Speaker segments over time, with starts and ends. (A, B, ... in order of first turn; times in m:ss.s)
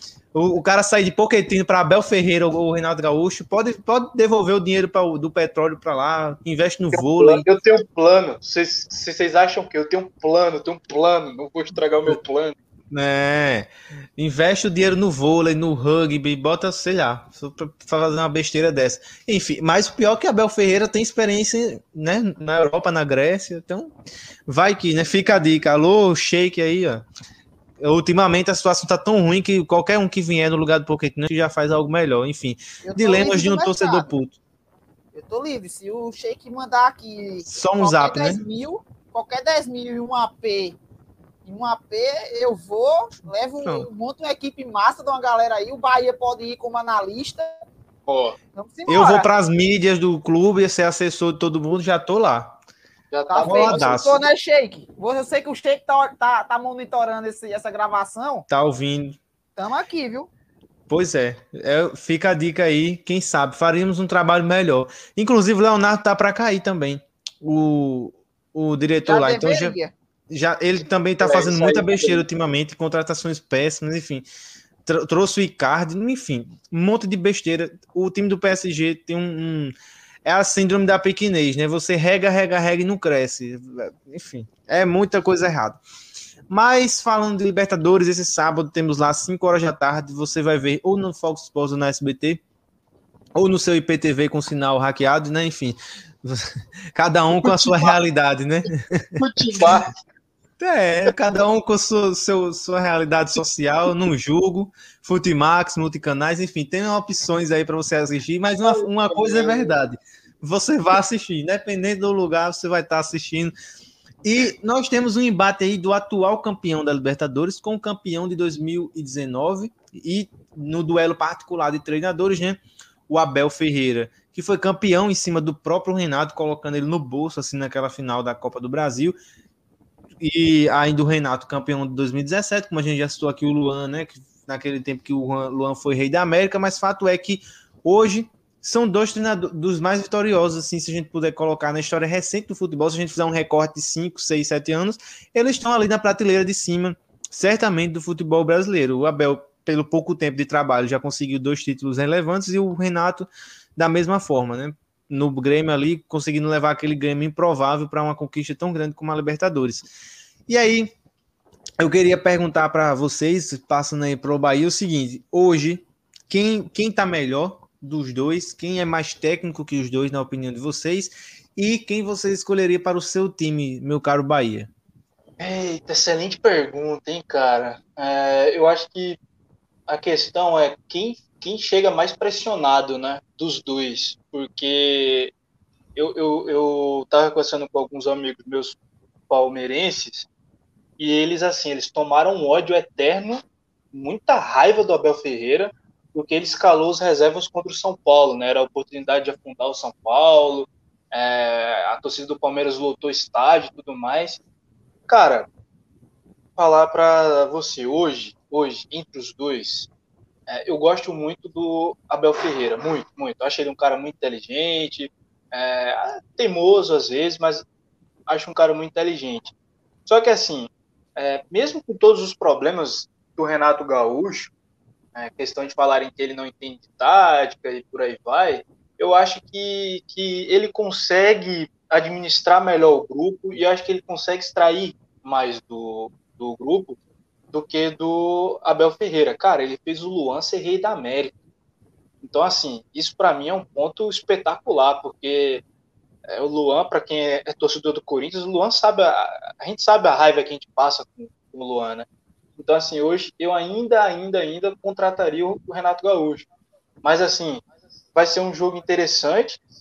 0:00.3-0:07.4 A
0:06.9-0:12.6 B
0:12.9-0:23.9 A
0:24.5-0:27.1 A
0:27.8-0:34.4 A
0:32.8-0:34.1 C
0:35.1-0:40.8 C
0:37.5-0:38.4 A
0:41.4-0:47.6 C
0:48.1-0:48.4 B
0:48.6-0:49.3 C
0:48.9-0:52.6 A
0:53.1-0:54.2 B
0:53.3-0:58.5 C
0:53.4-0:54.2 A
0:58.5-0:59.2 A
0:59.6-1:00.3 C
1:00.9-1:09.8 A
1:09.1-1:09.9 C
1:10.3-1:14.2 A
1:11.2-1:12.2 B
1:14.9-1:19.7 A
1:20.3-1:25.8 A
1:26.5-1:32.4 A
1:33.4-1:39.7 A
1:37.4-1:38.0 B
1:39.2-1:39.9 B
1:40.6-1:53.5 A
1:48.6-1:49.8 B
1:54.2-2:09.2 A
2:10.2-2:39.9 A
2:40.5-2:40.9 A
2:41.8-2:54.7 A
2:55.4-2:59.2 B
2:59.9-3:05.3 B
3:06.0-3:08.8 B
3:09.3-3:10.3 B
3:11.0-3:24.4 B
3:25.1-3:25.5 B
3:26.6-3:29.9 B
3:30.5-3:37.6 B
3:38.3-3:39.5 B
3:40.1-3:44.5 B
3:45.2-3:57.0 B
3:57.5-4:01.4 B
4:02.2-4:05.6 B
4:06.3-4:16.5 B
4:17.0-4:17.6 B
4:18.2-4:19.6 B